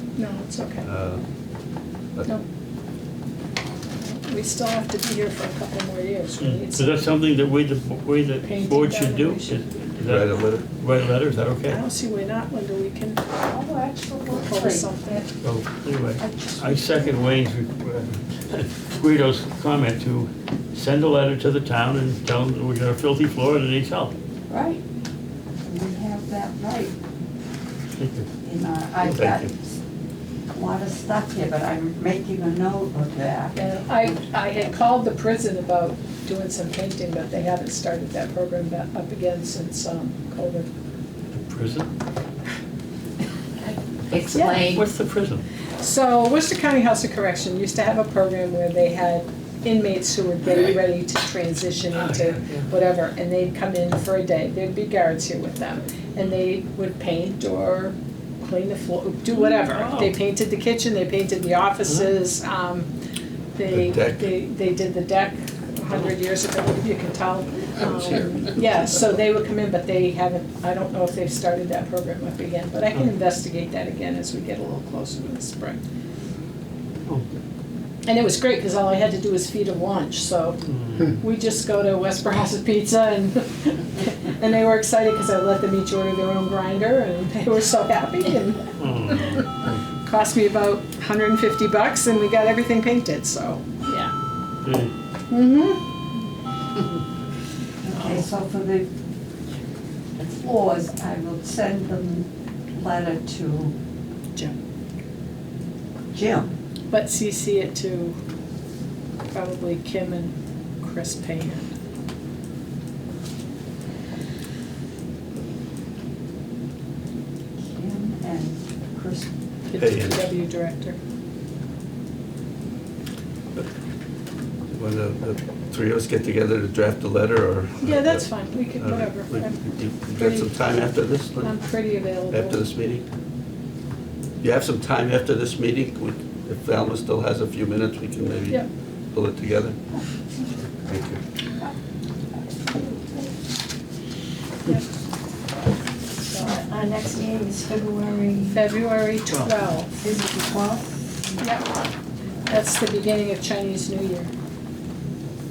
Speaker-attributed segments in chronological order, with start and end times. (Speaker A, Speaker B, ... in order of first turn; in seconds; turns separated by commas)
Speaker A: 0.2-0.8, Speaker B: 0.8-1.2, Speaker A: 4.0-6.9, Speaker C: 6.4-11.8, Speaker A: 8.4-9.6, Speaker B: 10.0-10.6, Speaker A: 11.7-13.2, Speaker D: 13.4-15.2, Speaker A: 14.4-15.3, Speaker C: 15.4-24.1, Speaker D: 16.2-17.0, Speaker D: 24.5-24.8, Speaker D: 25.6-26.9, Speaker C: 28.0-28.3, Speaker D: 28.4-29.8, Speaker B: 29.1-29.4, Speaker D: 30.5-33.7, Speaker A: 33.5-40.7, Speaker C: 41.3-41.9, Speaker A: 44.3-44.7, Speaker C: 44.6-45.4, Speaker A: 45.8-62.9, Speaker C: 52.0-52.7, Speaker C: 59.3-60.1, Speaker A: 63.5-75.8, Speaker B: 63.7-64.3, Speaker A: 78.0-89.5, Speaker C: 80.7-81.1, Speaker C: 88.8-89.8, Speaker A: 90.0-94.1, Speaker C: 94.6-94.9, Speaker A: 95.3-95.8, Speaker D: 97.9-98.9, Speaker D: 100.2-103.7, Speaker D: 106.1-106.5, Speaker A: 106.9-108.2, Speaker A: 109.3-111.7, Speaker D: 117.6-119.3, Speaker A: 119.7-121.0, Speaker B: 119.8-120.3, Speaker B: 124.7-128.2, Speaker A: 127.8-129.6, Speaker B: 128.8-131.5, Speaker A: 130.1-130.5, Speaker A: 131.4-132.6, Speaker B: 132.3-133.0, Speaker B: 134.4-139.8, Speaker B: 140.8-141.2, Speaker D: 142.3-143.3, Speaker A: 146.2-146.6, Speaker E: 146.4-148.6, Speaker A: 148.5-149.9, Speaker C: 149.3-149.6, Speaker D: 150.0-151.4, Speaker A: 151.4-151.7, Speaker A: 152.4-154.3